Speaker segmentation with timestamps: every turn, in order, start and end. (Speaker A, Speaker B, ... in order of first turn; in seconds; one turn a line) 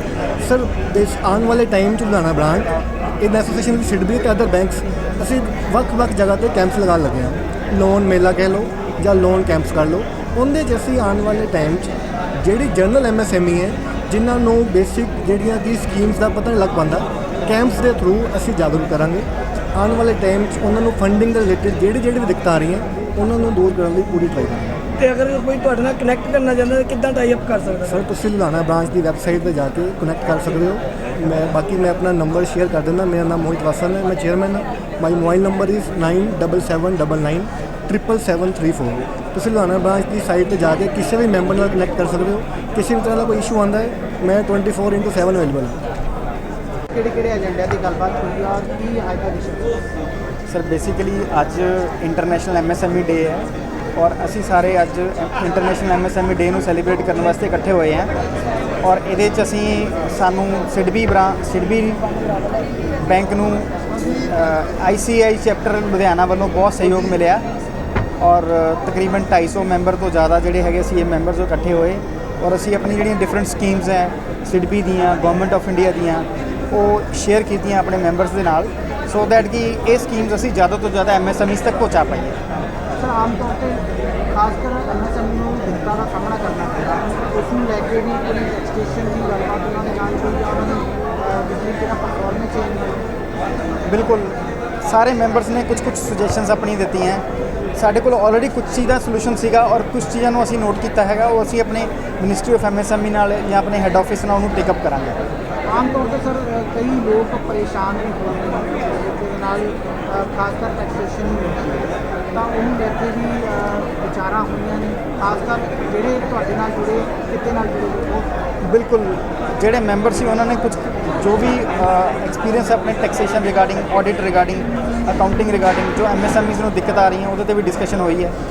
Speaker A: 0.4-24.8
Speaker B: 25.0-28.0
Speaker A: 27.8-45.8
Speaker C: 46.9-49.7
Speaker D: 50.5-58.1
Speaker D: 58.8-63.7
Speaker D: 64.3-67.4
Speaker D: 68.2-82.4
Speaker C: 83.0-93.0
Speaker D: 93.9-97.2
Speaker D: 97.8-105.2
Speaker C: 105.7-118.3
Speaker D: 118.6-128.3